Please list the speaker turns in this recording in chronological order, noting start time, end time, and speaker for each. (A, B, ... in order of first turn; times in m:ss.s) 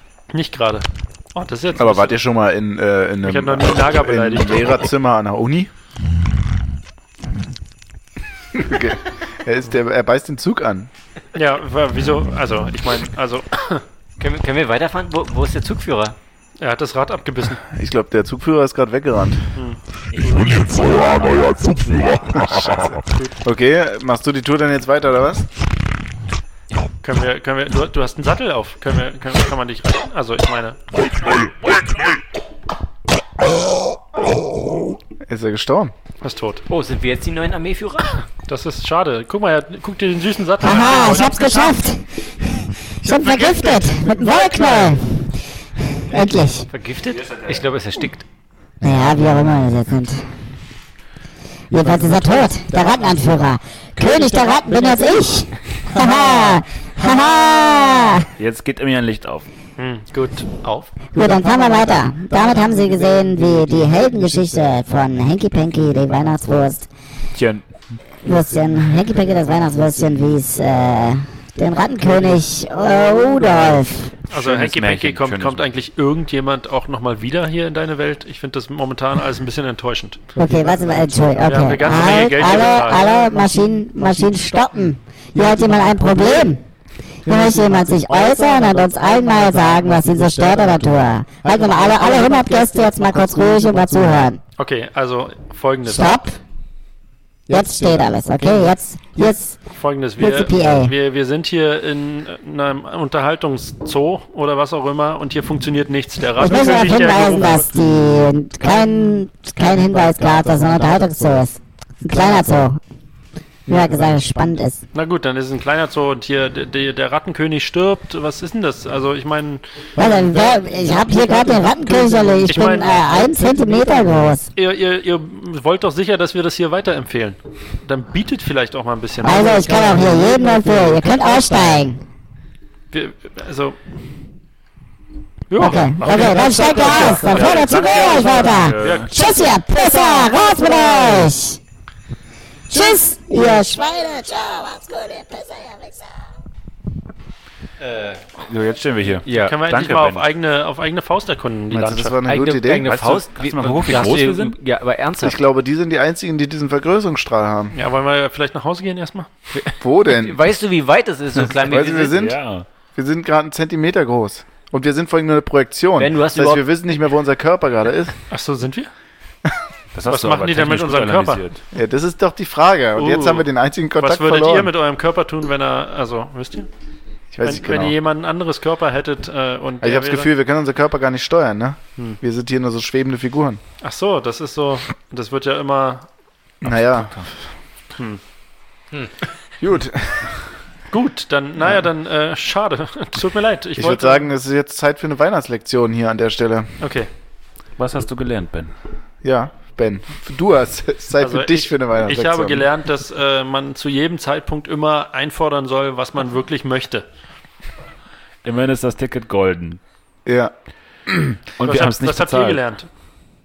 0:00.3-0:02.2 A
0:01.7-0:05.7 B
0:03.2-0:04.8 A
0:08.6-0:10.9 B
0:11.3-0:13.8 A
0:14.2-0:16.2 C
0:16.6-0:17.6 A
0:17.7-0:19.4 B
0:19.5-0:19.8 A
0:20.1-0:23.0 D
0:23.4-0:25.4 B
0:27.0-0:30.8 A
0:35.3-0:35.9 B
0:36.2-0:36.6 A
0:36.7-0:38.2 C
0:38.5-0:41.7 A
0:40.6-0:42.0 E
0:43.0-0:45.4 E
0:46.1-0:46.7 E
0:46.7-0:48.2 C
0:47.2-0:47.6 F
0:48.8-0:50.2 E
0:51.7-0:58.2 E
0:58.4-0:59.5 F
0:59.8-1:00.7 A
1:01.1-1:06.9 E
1:07.3-1:07.6 F
1:08.2-1:14.1 E
1:14.3-1:20.2 A
1:14.3-1:15.6 F
1:20.4-1:26.6 E
1:21.4-1:23.1 A
1:27.2-1:34.4 E
1:34.6-1:36.1 A
1:35.8-1:36.4 E
1:37.5-1:39.6 E
1:39.7-1:47.7 A
1:40.2-1:40.9 E
1:46.4-1:52.8 E
1:53.7-1:54.8 E
1:54.9-1:59.6 A
2:00.0-2:04.5 E
2:02.4-2:03.3 A
2:04.5-2:09.7 A
2:09.2-2:12.0 E
2:12.9-2:13.8 A
2:15.5-2:19.1 A
2:15.6-2:21.6 E
2:17.3-2:19.1 F
2:22.7-2:26.0 E
2:27.8-2:28.2 C
2:28.5-2:30.3 F
2:29.2-2:29.6 C
2:29.3-2:32.2 A
2:31.7-2:32.9 B
2:32.2-2:35.4 C
2:32.8-2:34.6 F
2:35.2-2:37.7 B
2:37.7-2:39.3 A
2:39.5-2:42.2 C
2:39.8-2:40.4 B
2:41.5-2:42.4 B
2:42.1-2:42.7 F
2:42.9-2:48.1 B
2:46.0-2:46.7 C
2:48.3-2:48.9 A
2:49.9-2:51.6 F
2:50.1-2:51.4 A
2:51.7-2:54.7 B
2:53.0-2:56.7 A
2:57.3-2:58.0 B
2:57.4-3:00.3 A
2:59.8-3:03.6 B
3:03.8-3:06.1 A
3:06.6-3:07.2 B
3:06.6-3:07.2 F
3:09.6-3:10.3 B
3:10.9-3:14.3 A
3:13.8-3:16.7 B
3:16.8-3:17.1 A
3:17.8-3:18.7 F
3:19.2-3:22.6 B
3:21.2-3:27.1 A
3:28.4-3:29.8 F
3:30.2-3:30.5 B
3:31.1-3:31.3 B
3:31.6-3:32.6 F
3:31.6-3:32.9 A